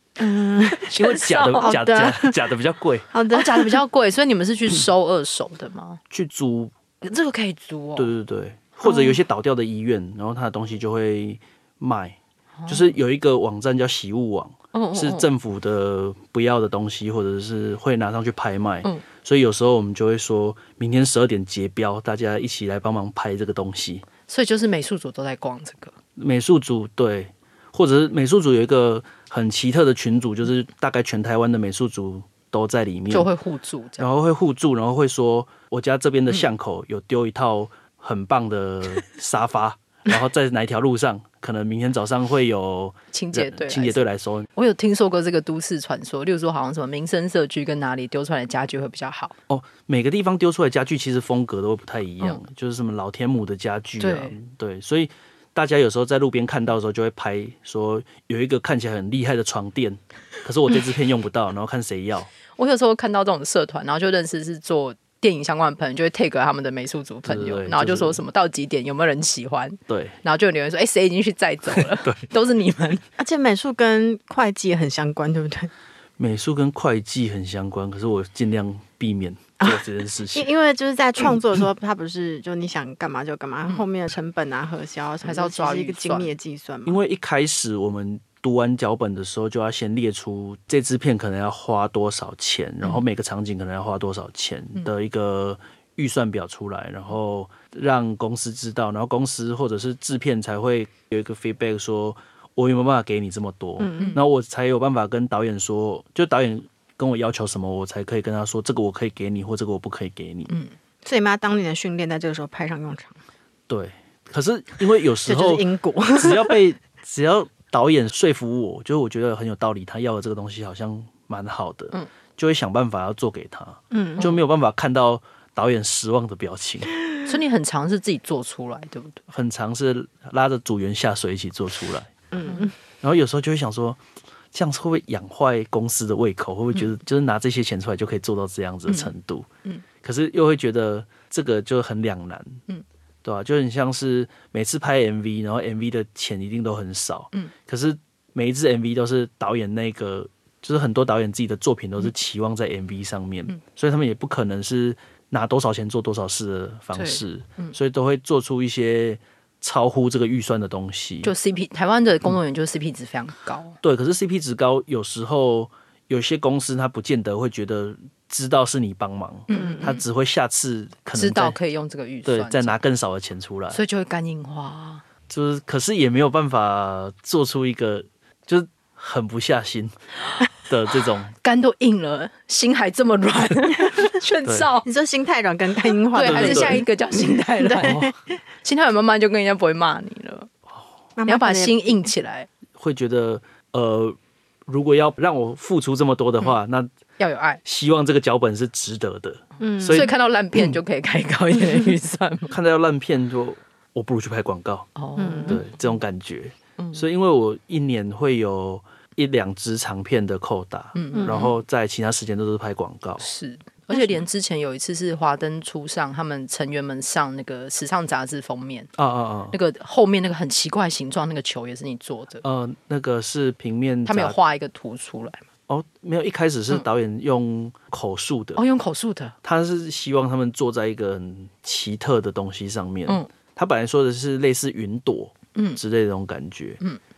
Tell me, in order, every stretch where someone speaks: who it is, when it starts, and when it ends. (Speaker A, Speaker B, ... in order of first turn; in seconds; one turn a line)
Speaker A: 0.2-0.9
Speaker B: 0.8-3.1
Speaker C: 0.9-1.8
Speaker A: 1.6-2.4
Speaker A: 3.1-3.8
Speaker C: 3.3-6.0
Speaker B: 6.1-6.7
Speaker C: 7.0-8.1
Speaker B: 8.0-24.1
Speaker A: 8.9-9.1
Speaker C: 14.7-15.3
Speaker C: 24.3-25.9
Speaker B: 26.2-33.3
Speaker C: 33.1-34.0
Speaker B: 34.0-44.5
Speaker C: 43.1-44.0
Speaker C: 44.5-49.4
Speaker B: 49.5-62.3
Speaker C: 54.0-54.4
Speaker C: 62.5-73.0
Speaker B: 67.2-68.2
Speaker B: 69.9-70.2
Speaker B: 71.8-72.2
Speaker A: 73.2-75.7
Speaker B: 76.2-80.5
Speaker A: 79.6-87.0
Speaker C: 85.2-86.3
Speaker B: 86.8-110.5
Speaker A: 103.8-104.1
Speaker A: 111.0-113.2
Speaker B: 113.7-126.9
Speaker A: 115.2-116.6
Speaker A: 123.9-124.3
Speaker C: 127.2-129.2
Speaker B: 129.3-132.1
Speaker A: 132.3-132.7
Speaker B: 133.0-134.0
Speaker B: 134.5-139.5
Speaker B: 140.0-142.6
Speaker B: 143.2-161.3
Speaker C: 156.9-157.7
Speaker C: 161.2-163.8
Speaker B: 163.8-171.6
Speaker C: 169.5-170.0
Speaker A: 169.5-169.8
Speaker C: 171.1-172.8
Speaker B: 172.2-173.8
Speaker C: 173.7-175.0
Speaker B: 175.3-179.9
Speaker B: 180.6-181.3
Speaker C: 181.4-184.9
Speaker B: 184.4-184.7
Speaker A: 184.8-186.8
Speaker C: 186.1-188.0
Speaker B: 186.2-186.8
Speaker A: 187.6-188.1
Speaker B: 187.8-188.1
Speaker C: 188.6-190.5
Speaker A: 191.2-191.8
Speaker C: 191.2-192.5
Speaker B: 192.7-196.9
Speaker C: 197.2-197.6
Speaker B: 197.6-200.7
Speaker A: 199.6-200.1
Speaker C: 199.9-202.5
Speaker B: 202.5-204.9
Speaker C: 204.9-205.6
Speaker A: 205.2-205.6
Speaker B: 205.4-213.3
Speaker C: 206.8-207.0
Speaker C: 210.9-211.5
Speaker A: 211.1-211.4
Speaker C: 213.2-218.9
Speaker B: 218.9-219.6
Speaker C: 219.5-222.4
Speaker B: 222.4-224.4
Speaker C: 224.1-225.4
Speaker B: 225.7-228.6
Speaker C: 228.6-229.3
Speaker B: 229.4-236.8
Speaker C: 235.5-235.8